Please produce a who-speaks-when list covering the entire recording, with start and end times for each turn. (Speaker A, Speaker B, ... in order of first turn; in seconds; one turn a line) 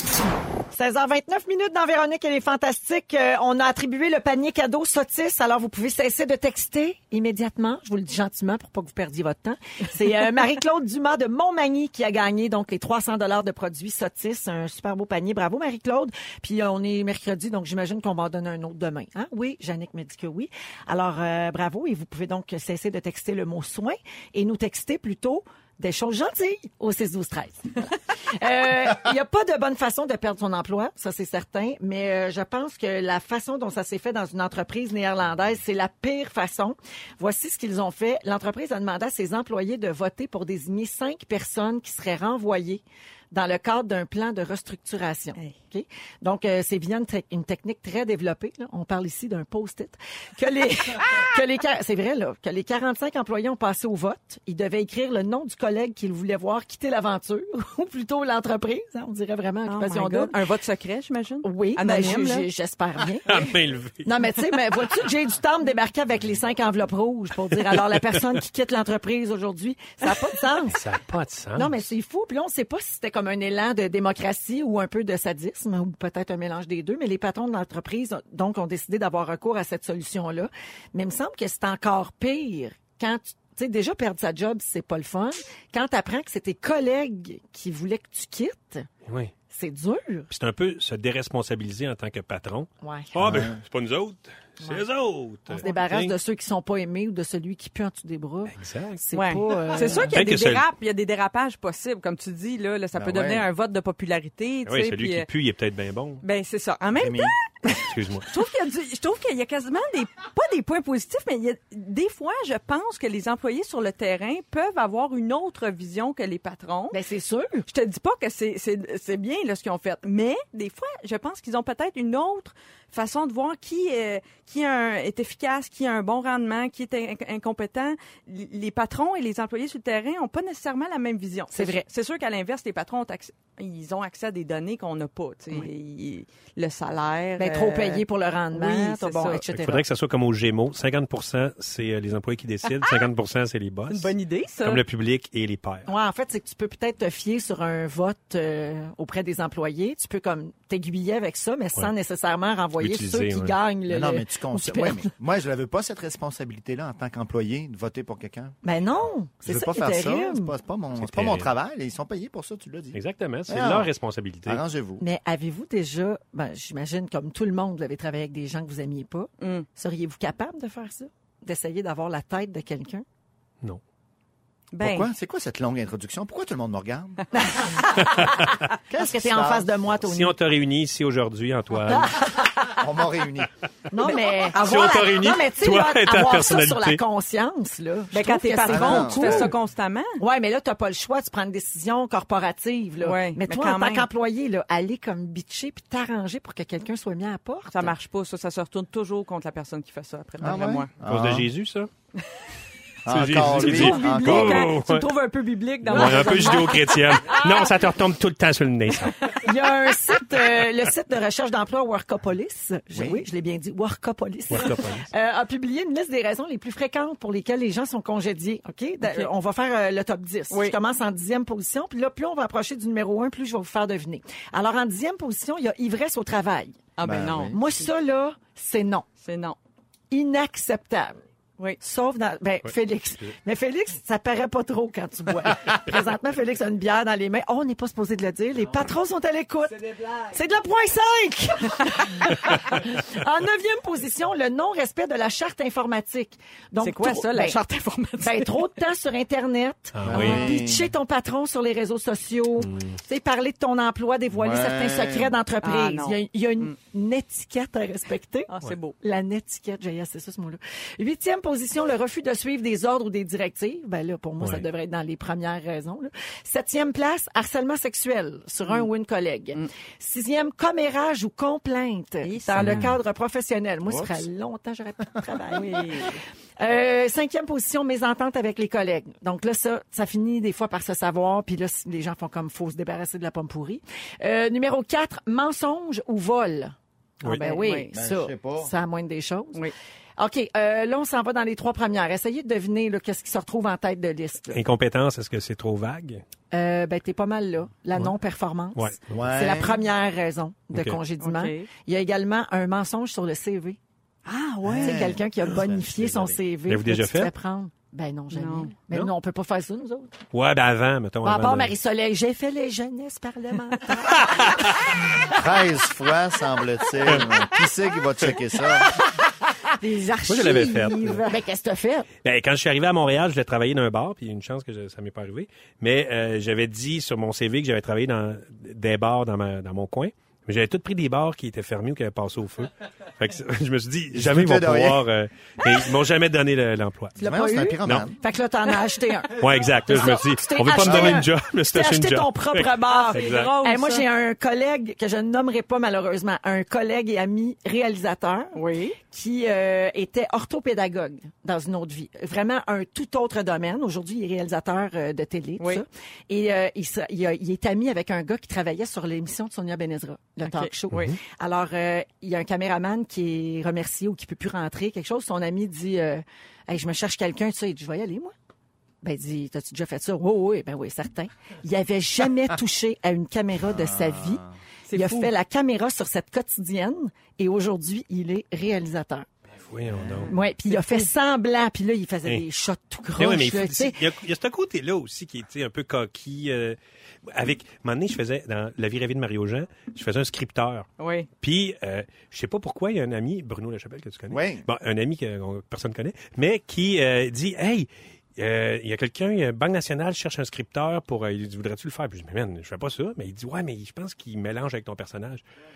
Speaker A: 0.7-60.4
Speaker B: 59.6-62.5
Speaker A: 61.4-63.5
Speaker C: 63.3-64.1
Speaker A: 64.0-70.8
Speaker C: 67.9-68.2
Speaker C: 70.7-71.7
Speaker A: 71.5-88.9
Speaker C: 89.0-89.3
Speaker A: 89.5-90.3
Speaker C: 90.3-96.1
Speaker A: 92.8-93.1
Speaker D: 93.2-93.6
Speaker A: 95.5-100.2
Speaker C: 98.5-99.0
Speaker B: 99.1-105.3
Speaker C: 100.1-100.6
Speaker D: 102.9-103.5
Speaker C: 104.7-106.2
Speaker B: 106.2-117.0
Speaker D: 106.9-107.3
Speaker C: 107.7-108.3
Speaker A: 116.9-117.7
Speaker B: 117.7-139.4
Speaker A: 131.5-131.8
Speaker A: 137.4-139.8
Speaker C: 139.5-145.9
Speaker B: 142.7-143.0
Speaker B: 143.9-144.8
Speaker A: 145.8-155.1
Speaker C: 152.8-153.6
Speaker D: 153.9-158.6
Speaker A: 158.6-160.5
Speaker D: 159.4-163.9
Speaker C: 161.0-161.5
Speaker C: 162.9-164.6
Speaker D: 164.4-165.0
Speaker A: 165.0-173.0
Speaker B: 174.7-175.1
Speaker D: 174.8-177.2
Speaker A: 177.4-180.3
Speaker C: 178.1-178.5
Speaker D: 178.9-179.7
Speaker C: 180.0-182.2
Speaker A: 181.9-182.7
Speaker D: 182.7-183.5
Speaker A: 183.9-189.6
Speaker C: 184.5-187.0
Speaker B: 188.1-190.2
Speaker D: 188.6-189.5
Speaker A: 190.2-197.9
Speaker B: 193.0-194.1
Speaker B: 197.7-200.9
Speaker D: 200.4-201.5
Speaker C: 201.0-201.9
Speaker D: 203.0-204.7
Speaker C: 203.1-205.1
Speaker A: 203.5-207.7
Speaker B: 205.8-206.8
Speaker C: 205.8-209.3
Speaker A: 209.3-226.8
Speaker D: 212.9-213.2
Speaker C: 214.5-215.1
Speaker B: 219.0-219.3
Speaker B: 220.5-220.8
Speaker B: 227.0-227.7
Speaker D: 227.0-227.6
Speaker A: 227.5-229.1
Speaker B: 229.2-229.6
Speaker A: 230.1-231.2
Speaker A: 231.8-247.6
Speaker B: 246.8-248.7
Speaker A: 248.2-258.5
Speaker C: 249.9-250.5
Speaker D: 250.0-250.9
Speaker C: 252.6-253.0
Speaker D: 254.3-255.3
Speaker B: 255.6-256.7
Speaker B: 258.5-258.9
Speaker A: 259.0-294.6
Speaker B: 272.2-272.9
Speaker C: 272.6-272.9
Speaker D: 273.9-274.2
Speaker B: 275.5-276.2
Speaker B: 287.2-287.9
Speaker D: 287.9-288.7
Speaker C: 294.5-296.2
Speaker A: 296.5-303.8
Speaker C: 298.8-299.2
Speaker D: 299.1-299.8
Speaker C: 300.7-301.0
Speaker B: 301.2-301.7
Speaker B: 304.2-305.1
Speaker D: 304.6-306.4
Speaker A: 304.8-310.1
Speaker C: 306.7-307.3
Speaker B: 308.3-308.7
Speaker C: 310.3-311.7
Speaker A: 311.2-315.0
Speaker C: 314.1-314.6
Speaker D: 315.2-318.9
Speaker A: 319.8-322.1
Speaker C: 320.3-321.2
Speaker C: 322.2-337.1
Speaker D: 334.1-335.0
Speaker A: 337.2-368.3
Speaker D: 337.2-338.2
Speaker C: 339.3-343.5
Speaker D: 340.8-341.3
Speaker B: 342.8-344.1
Speaker B: 348.5-348.9
Speaker B: 360.4-361.1
Speaker C: 360.9-361.2
Speaker A: 369.0-379.3
Speaker D: 373.7-374.5
Speaker B: 374.9-375.3
Speaker C: 379.6-380.3
Speaker D: 379.9-380.3
Speaker A: 380.3-384.0
Speaker B: 380.6-381.1
Speaker C: 383.2-390.9
Speaker B: 391.0-391.3
Speaker C: 391.4-405.4
Speaker D: 394.3-394.6